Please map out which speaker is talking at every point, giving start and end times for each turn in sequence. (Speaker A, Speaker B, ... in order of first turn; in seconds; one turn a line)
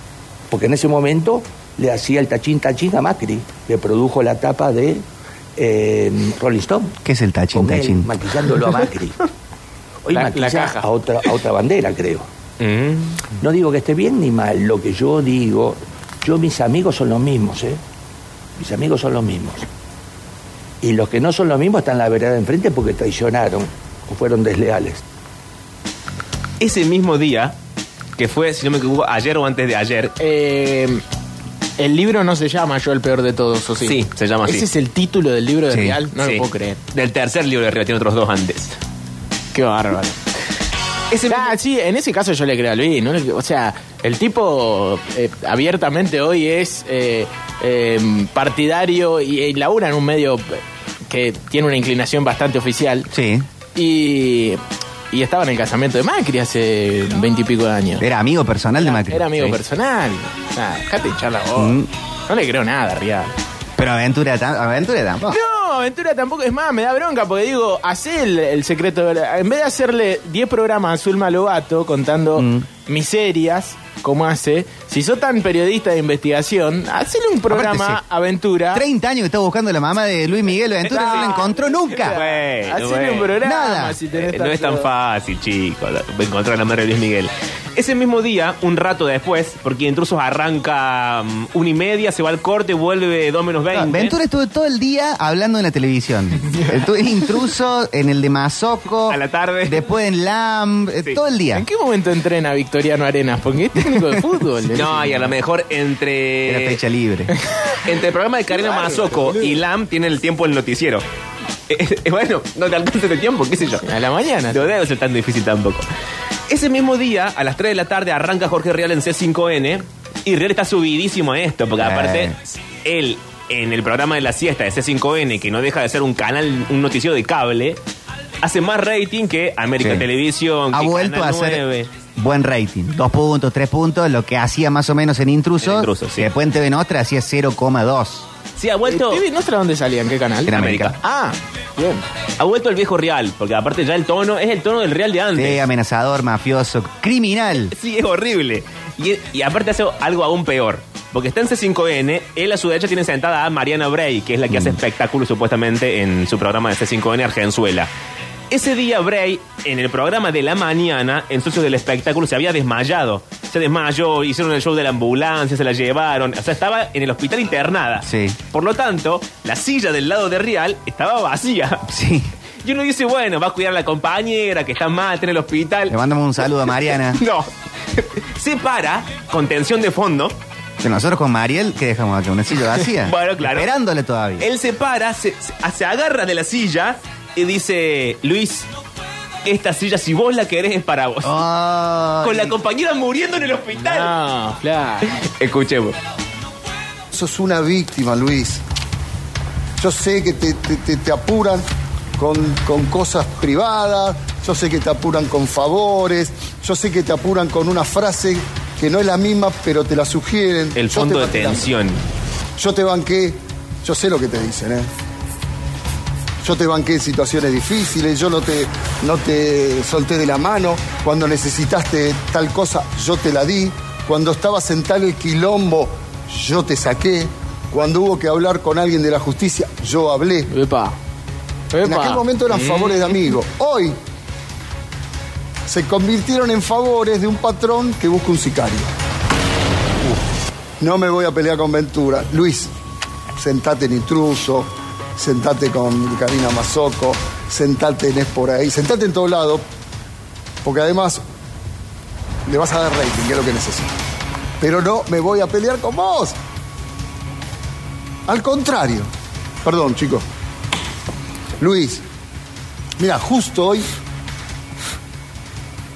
Speaker A: 0.5-5.0
Speaker A: 5.6-7.0
Speaker B: 7.0-8.1
Speaker A: 7.5-9.2
Speaker A: 10.0-12.2
Speaker C: 10.1-10.8
Speaker D: 12.6-13.2
Speaker A: 13.4-17.8
Speaker A: 18.6-19.6
Speaker A: 20.8-25.0
Speaker D: 26.6-27.5
Speaker D: 28.2-30.1
Speaker C: 30.2-31.0
Speaker C: 31.8-36.8
Speaker D: 33.8-34.6
Speaker B: 35.7-36.0
Speaker D: 36.2-38.8
Speaker C: 39.5-40.2
Speaker D: 41.1-41.5
Speaker C: 41.3-53.1
Speaker B: 53.1-53.5
Speaker C: 53.7-54.6
Speaker C: 55.1-58.0
Speaker B: 58.0-59.6
Speaker C: 58.8-63.3
Speaker B: 61.6-61.9
Speaker B: 63.8-65.4
Speaker C: 65.3-78.8
Speaker B: 72.4-72.7
Speaker B: 77.5-78.0
Speaker B: 78.7-82.2
Speaker D: 80.8-83.3
Speaker C: 80.9-84.9
Speaker B: 83.4-84.0
Speaker D: 84.2-94.2
Speaker B: 93.7-101.6
Speaker C: 96.5-96.8
Speaker D: 99.1-99.8
Speaker C: 101.5-105.3
Speaker D: 104.7-106.8
Speaker B: 106.5-107.3
Speaker D: 107.8-111.0
Speaker C: 108.5-109.5
Speaker D: 111.7-113.8
Speaker C: 113.8-114.6
Speaker D: 114.5-115.8
Speaker D: 116.5-127.8
Speaker B: 121.8-122.3
Speaker D: 128.4-131.9
Speaker B: 129.8-130.1
Speaker B: 130.7-131.6
Speaker B: 132.2-138.3
Speaker D: 135.6-136.3
Speaker D: 138.6-139.2
Speaker C: 138.9-142.0
Speaker B: 140.5-140.9
Speaker D: 140.5-140.9
Speaker D: 142.4-145.6
Speaker B: 145.3-147.7
Speaker D: 147.7-157.9
Speaker B: 154.5-154.8
Speaker D: 158.5-171.8
Speaker B: 168.0-168.4
Speaker B: 171.9-172.3
Speaker D: 172.6-175.9
Speaker B: 175.9-177.2
Speaker D: 177.1-180.3
Speaker B: 180.8-184.5
Speaker D: 183.0-183.7
Speaker D: 184.4-188.7
Speaker D: 189.4-191.4
Speaker B: 191.2-192.5
Speaker D: 192.2-194.1
Speaker C: 193.8-195.1
Speaker D: 195.4-195.9
Speaker E: 197.1-198.6
Speaker E: 199.8-201.7
Speaker E: 202.2-211.7
Speaker D: 210.7-212.0
Speaker E: 212.6-214.9
Speaker E: 216.4-230.5
Speaker C: 230.5-230.9
Speaker C: 231.7-233.2
Speaker E: 231.8-233.9
Speaker E: 235.7-238.9
Speaker E: 240.8-242.7
Speaker E: 243.4-249.6
Speaker E: 250.6-251.2
Speaker E: 252.4-253.9
Speaker E: 254.6-256.4
Speaker E: 258.3-259.1
Speaker E: 259.6-260.2
Speaker E: 261.6-262.0
Speaker E: 263.0-264.0